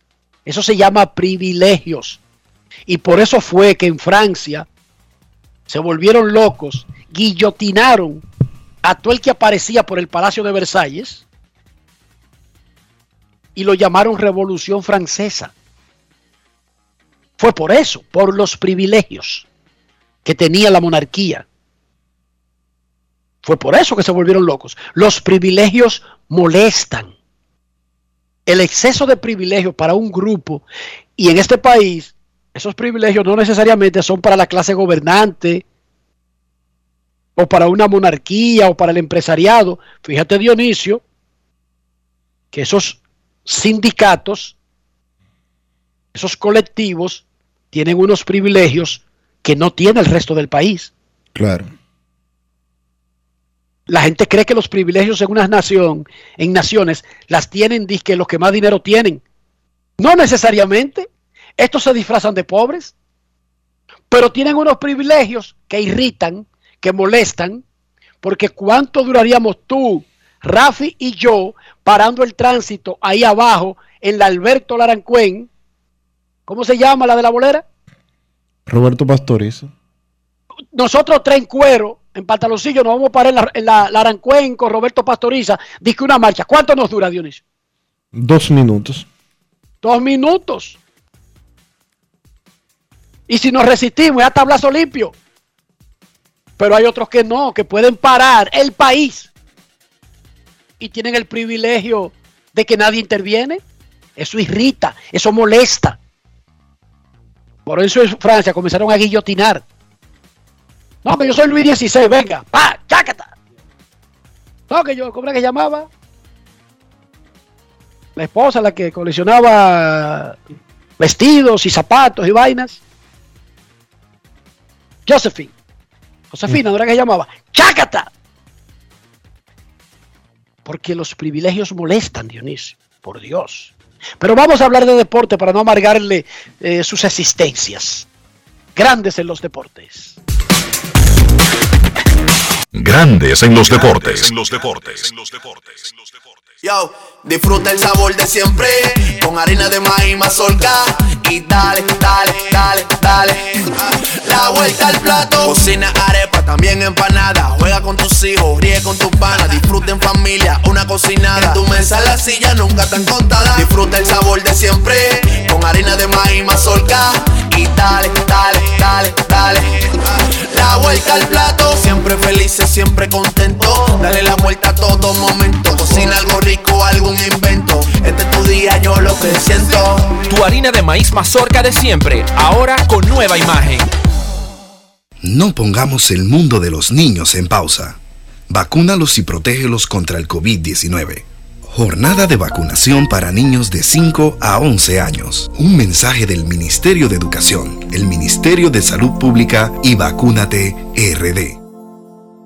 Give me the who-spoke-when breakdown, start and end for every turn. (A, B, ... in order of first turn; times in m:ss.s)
0:00.4-0:02.2 A
0:02.9-0:04.6 A
0:05.7-0:08.2 A
0:08.8-0:11.2 A
0:13.5-0:15.5 A
0:17.4-0:19.4 A
0:20.2-0:21.4 A
0:23.4-0:27.1 A
0:28.5-0:30.6 A
0:31.2-0:35.6 A
0:37.4-0:41.0 A
0:42.5-0:44.5 A
0:46.1-0:50.9 A
0:51.3-0:51.7 B
0:53.9-0:59.2 A
1:00.0-1:01.1 A
1:01.6-1:02.9 A
1:04.1-1:07.6 A
1:08.2-1:15.5 A
1:16.5-1:17.6 A
1:18.7-1:19.7 B
1:20.7-1:27.4 A
1:28.1-1:29.0 B
1:29.8-1:30.8 A
1:33.3-1:35.1 A
1:36.6-1:39.3 A
1:40.8-1:43.6 A
1:44.2-1:46.0 A
1:47.6-1:49.6 A
1:51.0-1:53.3 A
1:54.7-1:55.9 A
1:58.2-2:00.3 A
2:01.0-2:02.8 A
2:05.0-2:05.5 A
2:06.3-2:08.1 A
2:10.6-2:18.0 A
2:18.8-2:20.2 A
2:22.7-2:25.9 C
2:26.6-3:00.2 D
3:00.3-3:03.9 E
3:05.2-3:08.0 F
3:08.5-3:21.6 F